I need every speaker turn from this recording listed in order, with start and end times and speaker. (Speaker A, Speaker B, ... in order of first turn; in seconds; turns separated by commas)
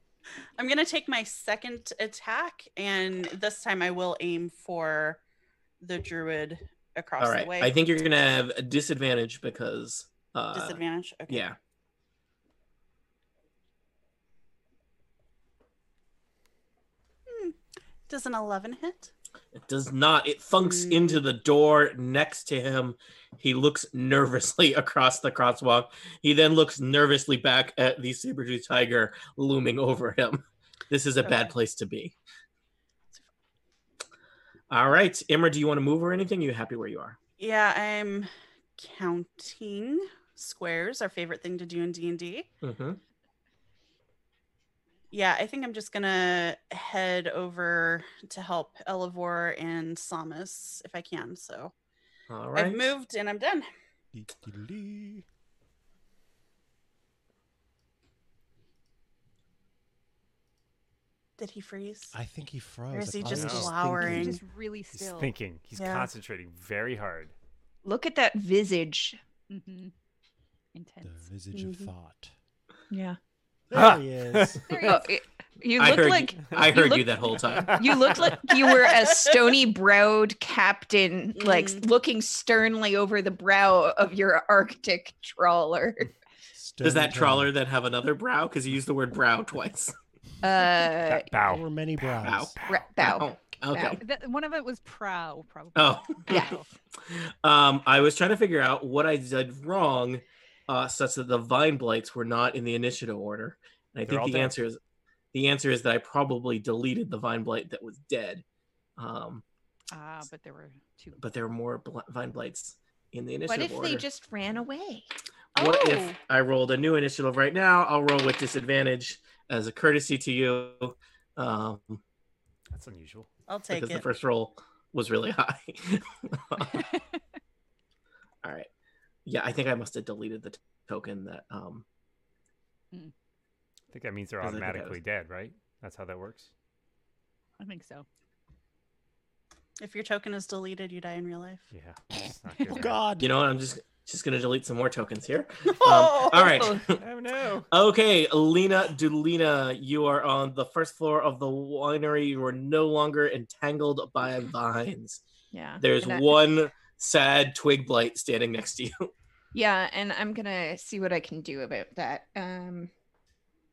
Speaker A: 0.6-5.2, Speaker A: 5.8-7.7, Speaker B: 7.2-11.6, Speaker A: 10.5-11.4, Speaker A: 17.3-17.6, Speaker A: 18.1-19.1, Speaker B: 19.6-32.2, Speaker A: 20.6-21.2, Speaker A: 31.2-31.5, Speaker B: 34.7-37.2, Speaker A: 37.4-42.5, Speaker B: 42.6-43.0, Speaker A: 45.1-51.7, Speaker B: 52.3-53.0, Speaker A: 52.5-53.7, Speaker C: 54.1-55.2, Speaker A: 61.4-62.1, Speaker C: 62.1-64.4, Speaker A: 62.9-64.4, Speaker D: 63.2-63.8, Speaker E: 64.0-65.3, Speaker D: 65.0-67.3, Speaker A: 65.8-66.1, Speaker F: 67.8-69.2, Speaker E: 69.5-69.9, Speaker E: 70.8-71.3, Speaker C: 71.0-72.3, Speaker A: 71.5-71.9, Speaker F: 72.9-73.2, Speaker C: 73.7-74.8, Speaker D: 73.7-74.8, Speaker E: 74.7-75.1, Speaker F: 74.8-86.1, Speaker B: 75.8-78.2, Speaker A: 78.8-79.2, Speaker A: 81.4-81.8, Speaker C: 86.6-87.5, Speaker B: 86.8-89.9, Speaker F: 90.4-91.3, Speaker D: 91.0-92.8, Speaker C: 91.3-92.5, Speaker B: 92.2-94.0, Speaker F: 92.7-94.0, Speaker E: 94.0-96.7, Speaker B: 95.8-96.5, Speaker F: 96.3-96.6, Speaker B: 97.0-104.8, Speaker D: 104.1-104.5, Speaker B: 105.3-108.4, Speaker B: 109.0-109.4, Speaker E: 109.9-111.2, Speaker B: 111.2-114.0, Speaker F: 113.5-115.1, Speaker A: 115.5-116.2, Speaker B: 115.6-122.0, Speaker D: 122.7-123.3, Speaker A: 123.5-124.1, Speaker B: 123.7-126.9, Speaker E: 126.7-127.0, Speaker B: 128.4-128.7, Speaker B: 129.3-131.8, Speaker D: 133.9-136.5, Speaker B: 134.4-135.0, Speaker E: 137.6-138.1, Speaker A: 139.8-141.6, Speaker D: 141.7-143.0, Speaker C: 142.7-143.3, Speaker B: 143.2-147.0, Speaker A: 145.7-146.7, Speaker F: 146.4-146.8, Speaker D: 146.9-147.7, Speaker B: 147.7-155.2, Speaker F: 155.5-156.4, Speaker B: 155.8-159.1, Speaker F: 159.5-162.9